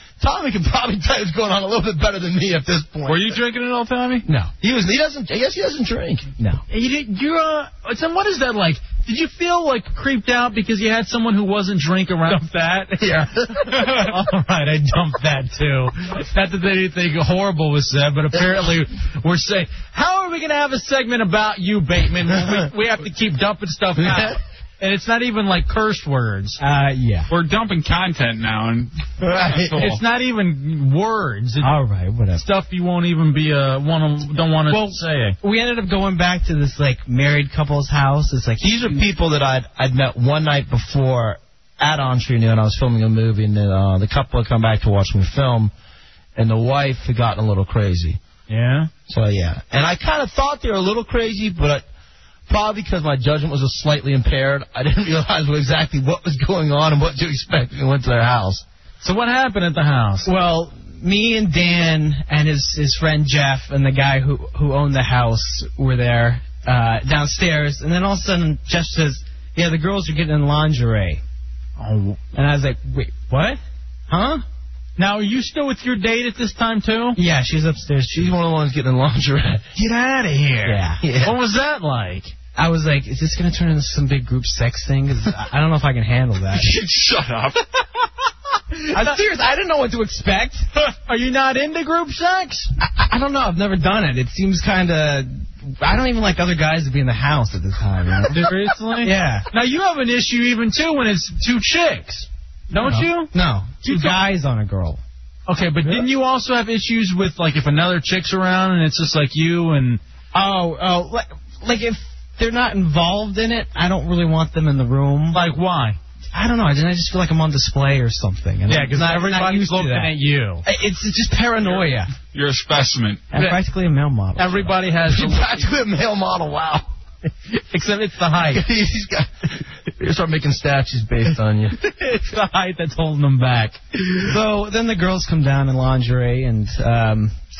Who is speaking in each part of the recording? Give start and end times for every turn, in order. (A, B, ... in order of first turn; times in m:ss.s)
0:00.2-0:03.3 A
0:03.1-0:04.2 B
0:04.2-0:04.5 C
0:04.5-0:06.3 A
0:06.7-0:26.6 D
0:13.0-0:13.5 A
0:24.0-0:24.3 A
0:26.6-0:27.3 C
0:27.3-0:30.0 B
0:29.2-0:29.8 A
0:29.7-0:31.7 D
0:31.6-0:32.4 C
0:32.3-0:35.4 D
0:34.7-0:39.0 C
0:38.6-0:45.7 A
0:46.3-0:48.2 A
0:48.5-0:48.9 D
0:49.1-0:51.8 A
0:52.5-0:58.6 A
0:59.0-1:00.3 D
1:00.2-1:11.2 C
1:11.8-1:12.2 D
1:12.3-1:14.4 C
1:15.0-1:17.2 D
1:17.2-1:18.2 C
1:18.1-1:19.6 A
1:19.8-1:22.3 D
1:20.6-1:21.0 C
1:21.0-1:21.4 A
1:22.5-1:26.6 C
1:26.5-1:27.6 B
1:28.8-1:29.2 D
1:28.9-1:30.7 C
1:31.0-1:32.7 D
1:32.8-1:38.5 C
1:38.3-1:44.2 D
1:39.0-1:39.5 C
1:42.8-1:45.0 C
1:45.5-1:50.0 D
1:50.3-1:55.4 C
1:55.3-1:56.0 D
1:56.3-2:00.1 C
1:58.7-2:00.6 D
2:00.6-2:02.1 C
2:02.3-2:03.3 B
2:03.3-2:04.7 C
2:04.4-2:05.7 D
2:05.0-2:06.8 A
2:07.5-2:08.6 D
2:08.5-2:09.3 A
2:09.9-2:11.8 A
2:11.8-2:14.2 D
2:14.2-2:17.4 C